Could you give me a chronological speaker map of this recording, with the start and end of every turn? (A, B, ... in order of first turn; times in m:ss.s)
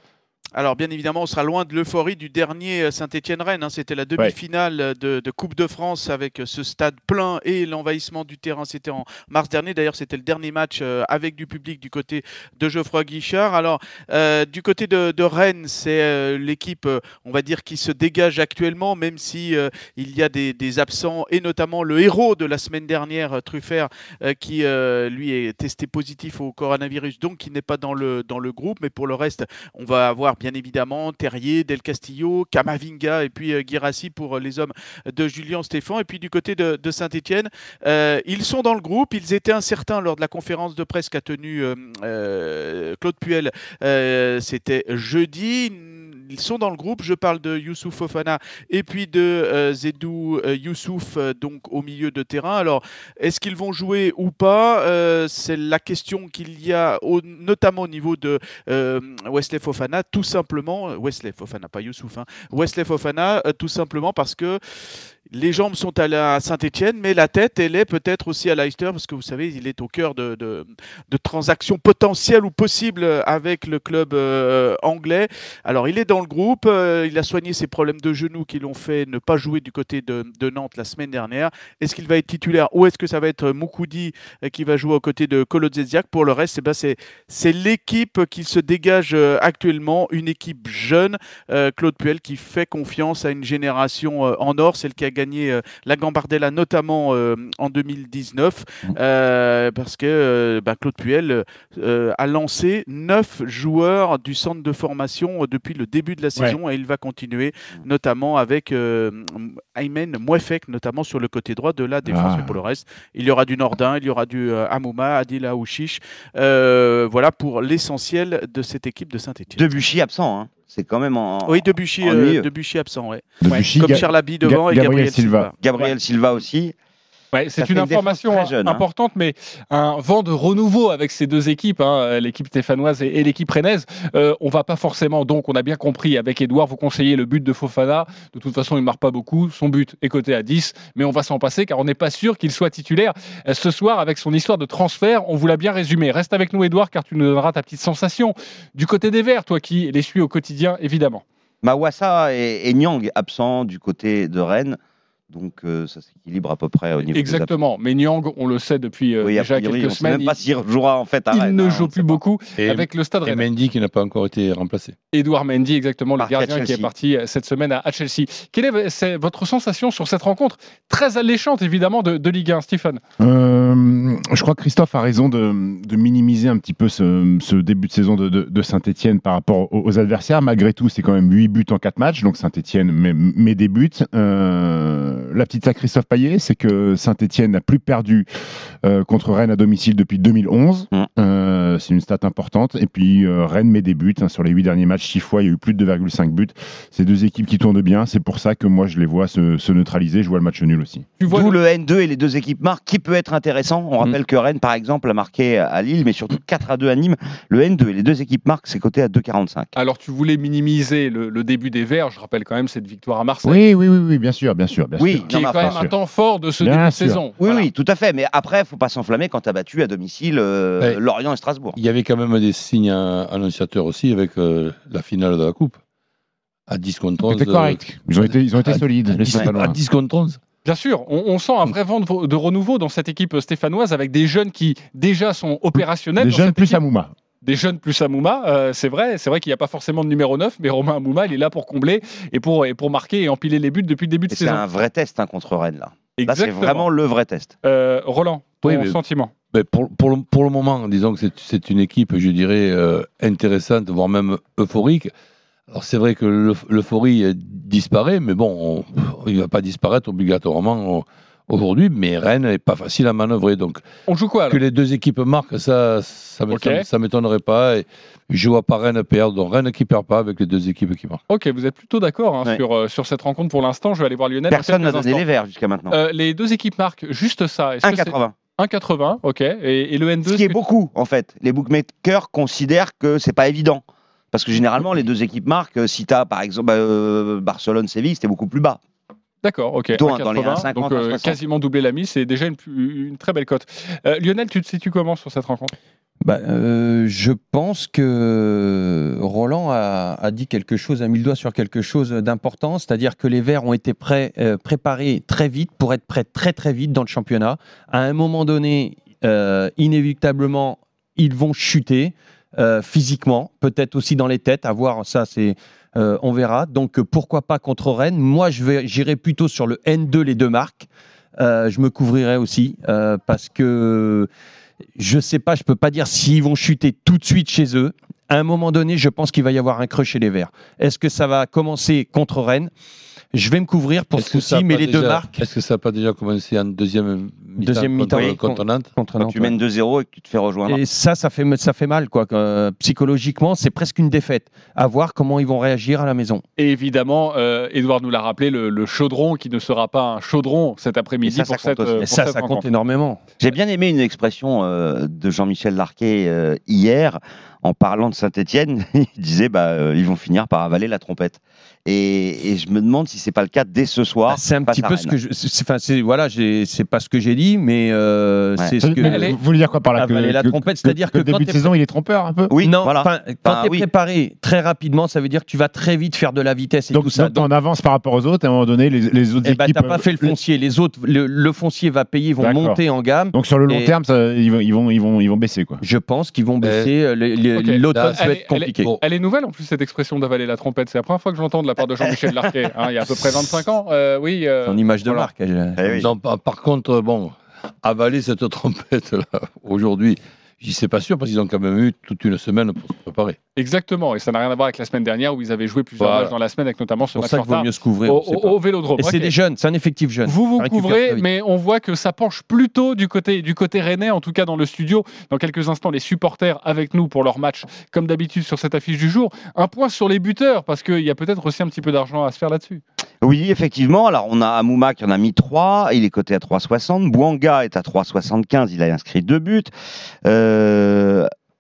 0:00.6-1:04.6 A
1:05.3-1:59.8 A
1:52.0-1:52.6 B
1:59.6-2:02.4 C
2:01.4-2:05.6 A
2:03.4-2:05.5 B
2:05.6-2:06.7 C
2:07.3-2:31.2 D
2:07.6-2:08.8 C
2:31.6-2:34.8 C
2:35.3-2:37.5 C
2:37.1-2:40.4 D
2:39.2-2:42.2 C
2:41.3-2:43.5 D
2:42.6-2:45.0 E
2:45.1-2:53.0 D
2:46.2-2:46.9 C
2:53.2-3:08.3 B
3:08.8-3:21.1 B
3:21.2-3:21.6 D
3:21.3-3:29.7 C
3:29.8-3:33.6 D
3:33.4-3:35.9 B
3:35.0-3:35.8 C
3:35.3-3:37.6 D
3:36.6-3:37.2 B
3:37.4-3:41.8 C
3:41.8-3:45.8 E
3:46.7-3:50.4 E
3:47.3-3:49.8 B
3:50.6-3:56.8 D
3:56.2-3:57.1 B
3:57.4-4:04.6 D
4:04.3-4:07.5 C
4:06.2-4:06.9 D
4:07.6-4:09.3 D
4:08.6-4:09.0 E
4:09.5-4:15.1 E
4:15.7-4:23.8 E
4:24.1-4:24.6 D
4:24.5-4:31.2 E
4:26.5-4:26.8 D
4:31.3-4:35.2 D
4:34.5-4:35.9 C
4:35.9-4:40.6 D
4:37.8-4:38.4 C
4:40.2-4:48.8 C
4:49.4-4:55.7 D
4:50.0-4:51.4 C
4:56.2-5:24.3 F
5:25.0-5:32.7 F
5:33.3-5:35.4 F
5:34.2-5:39.2 E
5:37.6-5:39.6 F
5:39.2-5:40.8 C
5:40.7-5:46.4 F
5:46.6-5:52.7 D
5:51.2-5:52.0 C
5:52.0-5:53.2 F
5:53.4-6:05.1 C
6:04.3-6:09.3 F
6:08.8-6:12.5 B
6:09.0-6:09.4 D
6:10.0-6:11.7 F
6:12.5-6:13.8 C
6:12.6-6:17.4 F
6:16.9-6:20.3 B
6:19.4-6:23.9 F
6:22.4-6:22.8 B
6:23.3-6:25.8 B
6:25.8-6:28.9 F
6:26.6-6:26.9 E
6:27.6-6:35.3 D
6:27.9-6:29.0 E
6:34.6-6:36.0 F
6:35.8-6:36.1 C
6:36.0-6:43.4 E
6:43.6-6:49.3 D
6:46.0-6:46.3 E
6:47.2-6:51.2 F
6:50.2-7:02.8 D
7:03.2-7:09.7 C
7:10.2-7:11.3 C